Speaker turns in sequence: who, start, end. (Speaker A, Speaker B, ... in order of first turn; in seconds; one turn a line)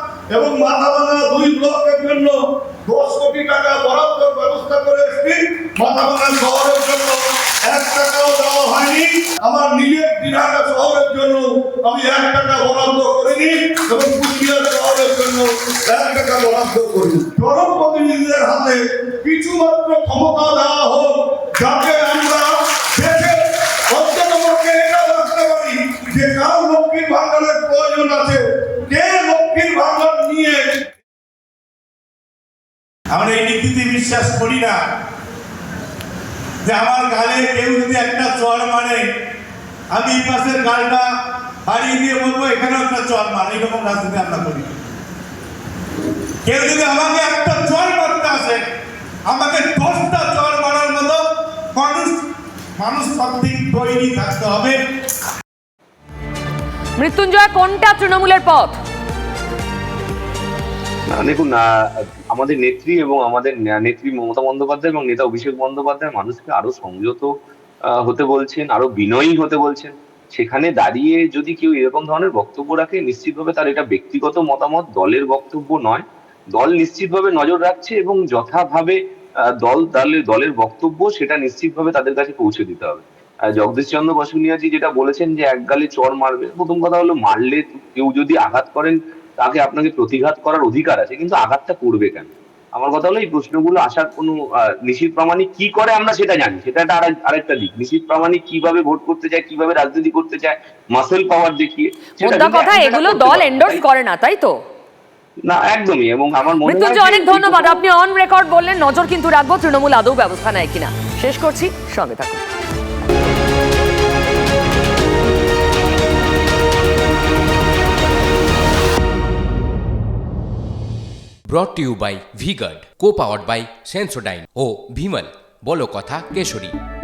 Speaker A: 0.3-23.4
Speaker A: 23.9-30.7
Speaker B: 33.1-34.8
Speaker B: 36.6-39.0
Speaker B: 39.9-41.1
Speaker B: 41.7-44.7
Speaker B: 46.5-48.6
Speaker B: 49.3-52.2
Speaker B: 52.8-54.8
Speaker C: 57.0-58.8
Speaker D: 61.1-61.6
Speaker D: 62.3-67.3
Speaker D: 68.0-79.0
Speaker D: 79.6-103.8
Speaker C: 102.2-104.6
Speaker D: 105.5-107.8
Speaker C: 106.6-112.4
Speaker E: 121.5-126.7